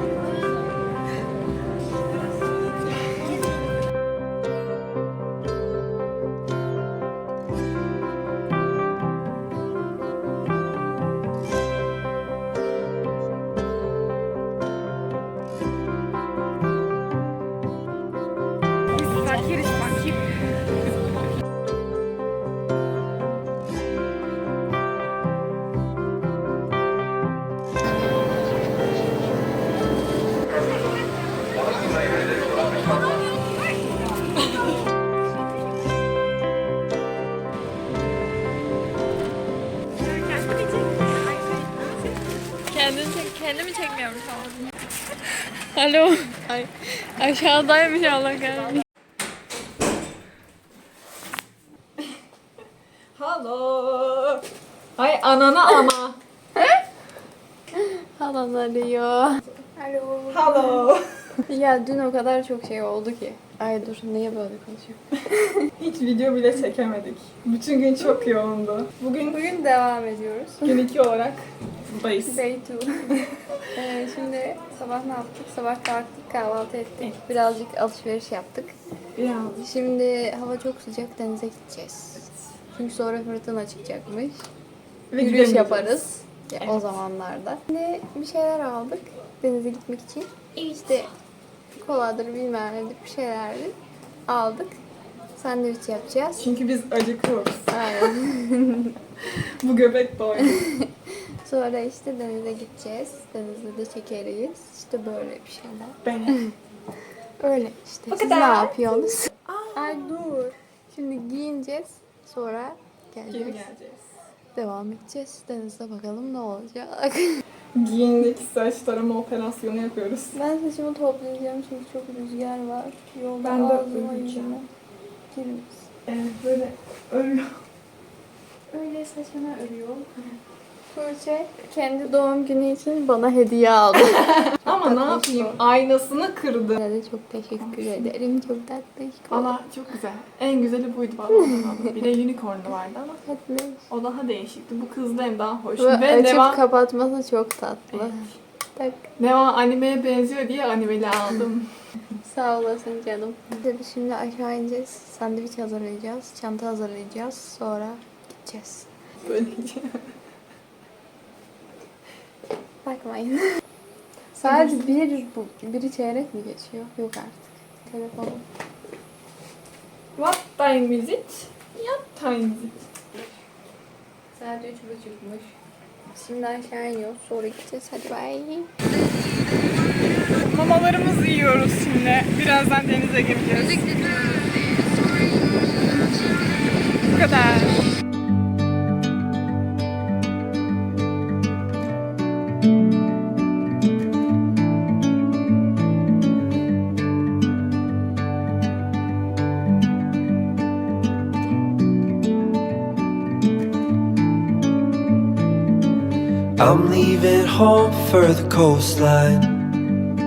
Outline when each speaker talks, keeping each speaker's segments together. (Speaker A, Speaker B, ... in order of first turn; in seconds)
Speaker A: 19.0-20.2, 40.4-41.0, 182.3-183.8, 187.2-187.8
Speaker B: 42.7-44.6, 45.7-48.9, 56.6-56.8, 57.8-60.9, 61.5-65.6, 69.3-70.8, 72.2-73.1, 73.7-78.8, 79.6-84.5, 85.2-91.1, 91.8-93.7, 94.3-94.7, 95.4-96.5, 97.7-99.0, 100.6-100.9, 101.4-106.5, 107.4-113.7, 114.5-117.4, 120.3-124.7, 125.3-125.8, 128.7-130.1, 130.9-135.6, 136.8-139.5, 143.2-143.8, 145.8-149.1, 152.2-158.9, 162.8-163.6, 164.4-168.4, 174.3-175.5, 176.1-178.7, 183.6-184.9
Speaker C: 53.1-54.4, 55.0-56.2, 60.3-61.0, 65.8-69.4, 70.6-72.4, 79.2-79.6, 85.1-86.0, 86.6-86.9, 96.4-98.1, 99.2-100.7, 106.0-106.3, 108.1-110.0, 113.3-114.0, 117.8-120.3, 123.4-124.6, 126.1-127.6, 134.3-136.8, 137.6-138.1, 139.3-143.2, 143.9-146.6, 149.2-151.7, 159.2-160.0, 164.4-164.7, 170.2-172.7, 180.4-182.5
Speaker D: 206.6-209.7